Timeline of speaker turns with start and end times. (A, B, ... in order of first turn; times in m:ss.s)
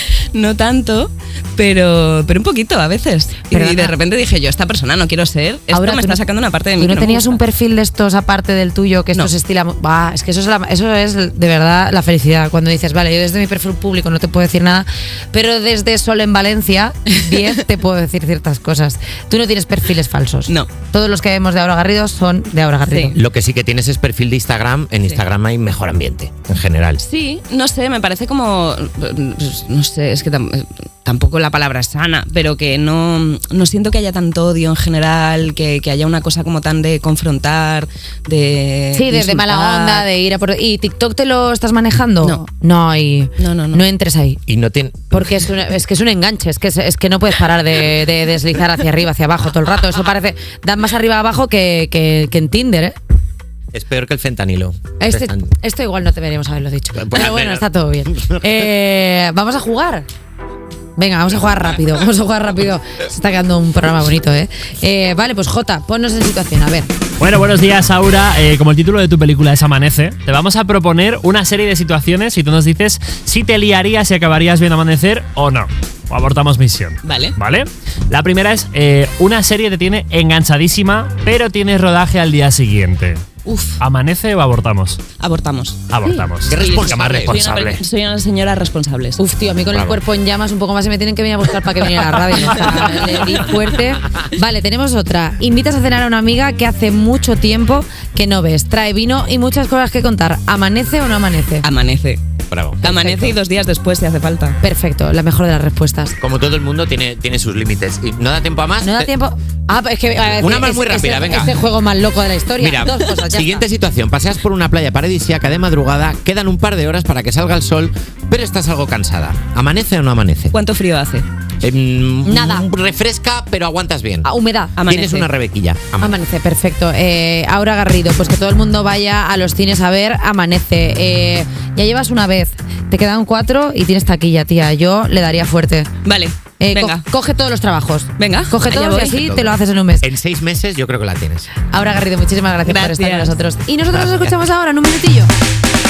0:00.3-0:07.4 A
0:03.5-0:03.9 B
0:05.7-0:06.2 B
0:06.8-0:23.2 B
0:22.9-0:23.1 A
0:23.1-0:27.0 C
0:27.0-0:40.1 A
0:38.9-0:44.4 B
0:43.4-0:43.8 A
0:44.5-0:45.3 C
0:45.1-0:53.0 B
0:53.7-0:55.5 C
0:55.0-1:00.1 B
0:57.0-0:58.4 C
1:01.0-1:06.9 B
1:07.2-1:23.2 D
1:17.0-1:17.4 A
1:23.4-1:23.8 A
1:23.8-1:25.0 D
1:25.2-1:29.2 A
1:25.9-1:27.8 D
1:26.4-1:27.4 C
1:29.2-1:41.6 B
1:29.7-1:30.0 C
1:32.6-1:33.0 A
1:41.6-1:42.2 A
1:42.5-1:42.8 C
1:42.8-1:43.4 B
1:42.8-1:44.6 A
1:44.6-1:46.2 B
1:46.2-1:49.1 C
1:48.8-1:53.6 B
1:50.4-1:51.6 C
1:52.6-2:00.6 C
2:00.5-2:01.2 A
2:01.6-2:04.3 C
2:02.2-2:02.7 B
2:04.2-2:04.7 B
2:04.8-2:05.3 A
2:04.8-2:06.1 C
2:06.0-2:15.9 B
2:16.0-2:17.0 A
2:16.6-2:20.1 B
2:18.2-2:19.2 A
2:19.0-2:21.5 C
2:21.7-2:25.3 B
2:22.6-2:23.4 A
2:23.9-2:24.3 C